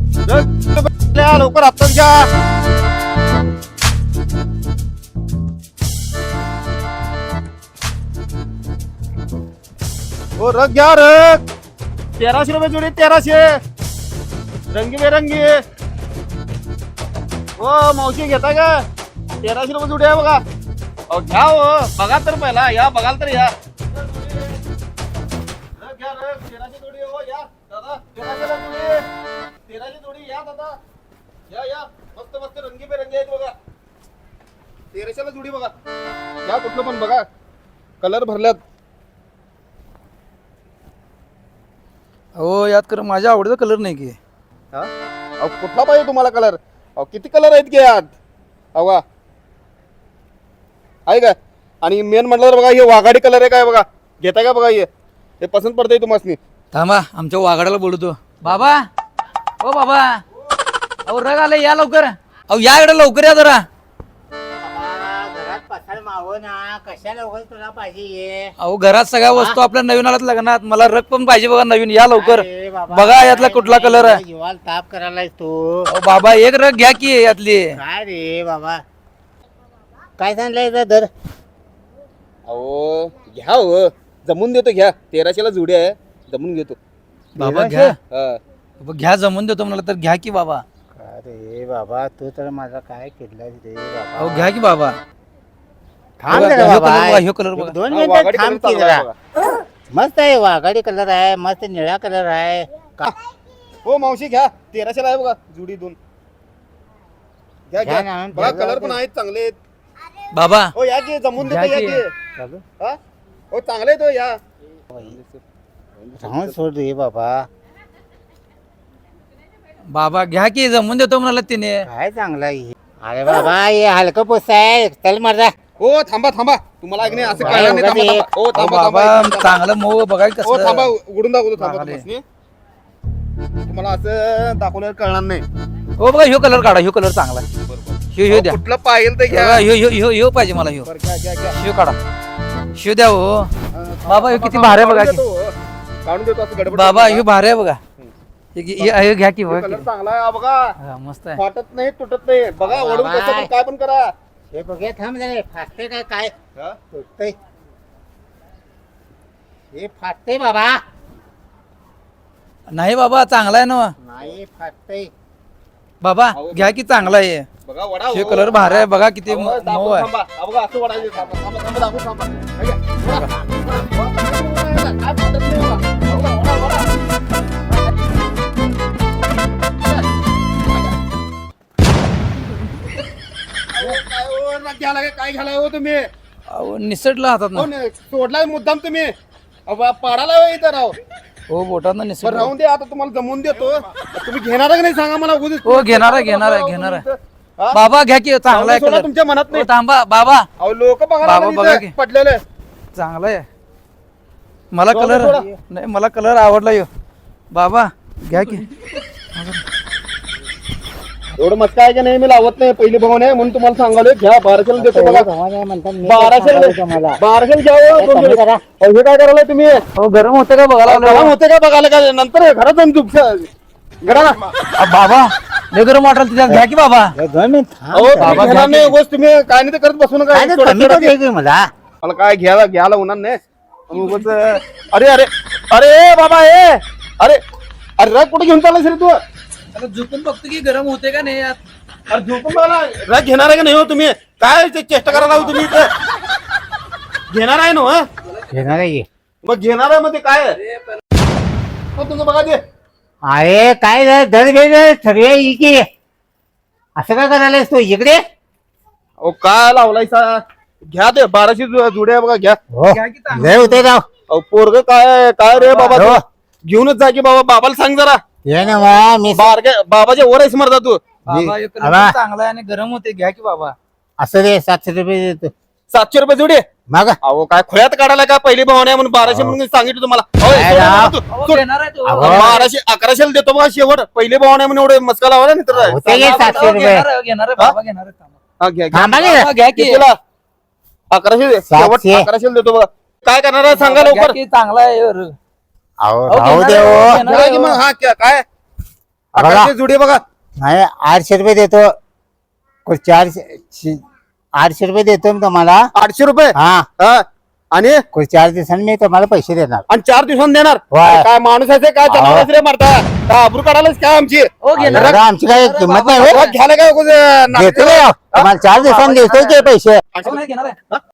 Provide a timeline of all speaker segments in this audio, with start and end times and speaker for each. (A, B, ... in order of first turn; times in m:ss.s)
0:00.2-0:02.2 A
0:10.4-0:11.4 A
0:12.2-0:13.4 A
0:14.7-0:15.6 A
0:17.6-0:18.7 A
0:19.4-0:20.4 A
0:21.1-0:24.6 A
0:25.8-0:29.0 A
0:29.7-0:30.8 A
0:31.5-0:33.5 A
0:34.9-0:35.7 A
0:36.4-0:37.2 A
0:38.0-0:38.6 A
0:42.4-0:44.2 B
0:45.4-0:48.1 A
0:48.7-0:49.0 A
0:51.1-0:54.9 A
0:55.4-0:56.4 A
0:56.7-0:58.8 B
0:59.6-1:00.2 B
1:01.1-1:03.7 B
1:04.6-1:08.5 C
1:08.6-1:14.2 B
1:12.1-1:15.9 C
1:15.9-1:17.6 B
1:17.7-1:18.8 C
1:20.2-1:21.1 C
1:22.5-1:26.8 A
1:27.4-1:27.9 B
1:27.4-1:27.9 C
1:28.1-1:28.4 A
1:28.8-1:30.6 B
1:31.0-1:34.5 C
1:34.2-1:35.0 B
1:36.2-1:39.0 C
1:36.3-1:37.8 B
1:37.9-1:39.1 A
1:39.9-1:43.1 C
1:43.8-1:46.0 A
1:47.7-1:49.6 A
1:47.8-1:49.0 C
1:50.3-1:50.7 B
1:50.7-1:52.1 A
1:51.4-1:52.0 B
1:52.4-1:52.6 C
1:53.5-1:54.4 A
1:55.0-1:55.4 A
1:56.0-1:56.6 A
1:56.2-1:57.4 C
1:59.9-2:01.8 B
2:01.8-2:05.5 C
2:05.8-2:09.6 A
2:07.0-2:08.2 C
2:07.4-2:07.8 B
2:08.5-2:10.9 B
2:10.4-2:12.2 A
2:11.6-2:12.0 B
2:13.6-2:15.4 A
2:16.0-2:17.4 B
2:17.7-2:19.6 A
2:18.1-2:18.6 B
2:19.3-2:20.9 B
2:20.8-2:21.6 A
2:21.5-2:22.0 B
2:22.8-2:23.5 B
2:23.7-2:27.2 A
2:24.1-2:25.2 B
2:26.6-2:27.8 B
2:28.5-2:29.8 B
2:28.8-2:30.7 A
2:30.8-2:31.4 B
2:31.4-2:34.1 A
2:32.6-2:33.5 C
2:34.5-2:36.3 C
2:36.9-2:37.4 C
2:39.7-2:40.8 C
2:42.7-2:43.9 B
2:44.0-2:45.1 C
2:46.0-2:47.4 B
2:46.3-2:46.8 A
2:47.6-2:56.9 A
2:48.1-2:50.1 B
3:03.7-3:06.1 A
3:06.5-3:07.7 B
3:07.5-3:09.1 A
3:09.7-3:11.0 A
3:11.5-3:12.5 B
3:12.2-3:17.8 A
3:15.6-3:17.0 B
3:17.7-3:20.4 B
3:18.5-3:19.7 A
3:20.6-3:22.4 A
3:21.2-3:21.9 B
3:23.0-3:23.4 B
3:24.7-3:26.9 B
3:24.9-3:25.5 A
3:25.3-3:25.5 C
3:27.5-3:28.6 B
3:29.3-3:29.6 B
3:31.4-3:35.3 A
3:34.8-3:37.2 C
3:36.0-3:39.8 A
3:37.9-3:38.6 C
3:39.9-3:41.3 B
3:40.8-3:43.5 A
3:44.0-3:44.4 A
3:44.8-3:47.1 B
3:47.1-3:48.5 C
3:47.9-3:51.1 A
3:48.2-3:48.9 B
3:50.3-3:51.6 C
3:52.0-3:53.4 A
3:53.9-3:57.4 A
3:58.0-3:59.2 A
3:59.7-4:01.6 B
4:02.1-4:05.9 A
4:05.1-4:05.5 B
4:07.3-4:08.0 A
4:08.5-4:09.0 C
4:09.4-4:10.6 A
4:12.0-4:12.6 A
4:13.3-4:15.8 C
4:17.0-4:18.2 C
4:19.2-4:22.6 A
4:22.7-4:24.0 C
4:22.9-4:23.9 B
4:24.3-4:28.2 A
4:25.5-4:26.0 B
4:25.9-4:26.2 C
4:28.5-4:29.5 C
4:29.3-4:31.0 A
4:31.2-4:33.7 B
4:31.3-4:32.2 C
4:34.2-4:35.5 C
4:35.9-4:36.6 A
4:36.9-4:37.2 C
4:37.2-4:41.6 A
4:39.3-4:39.6 C
4:40.5-4:41.2 C
4:40.9-4:42.6 B
4:42.0-4:42.6 C
4:42.2-4:46.8 A
4:45.7-4:47.1 C
4:46.0-4:48.3 B
4:48.6-4:50.1 A
4:48.9-4:49.5 C
4:49.3-4:50.0 B
4:51.1-4:54.4 A
4:51.7-4:52.3 C
4:53.8-4:55.3 B
4:56.0-4:57.2 C
4:56.3-4:57.8 B
4:56.8-4:58.4 A
4:59.3-5:00.2 A
4:59.4-4:59.7 C
5:00.6-5:01.9 C
5:02.8-5:04.0 C
5:04.6-5:05.9 C
5:05.9-5:08.0 A
5:06.6-5:06.8 C
5:08.1-5:09.8 C
5:09.9-5:15.2 A
5:10.9-5:11.3 C
5:12.1-5:12.5 C
5:14.6-5:16.5 B
5:14.8-5:16.4 C
5:16.2-5:19.4 A
5:17.5-5:20.0 C
5:20.1-5:20.4 A
5:20.2-5:20.8 B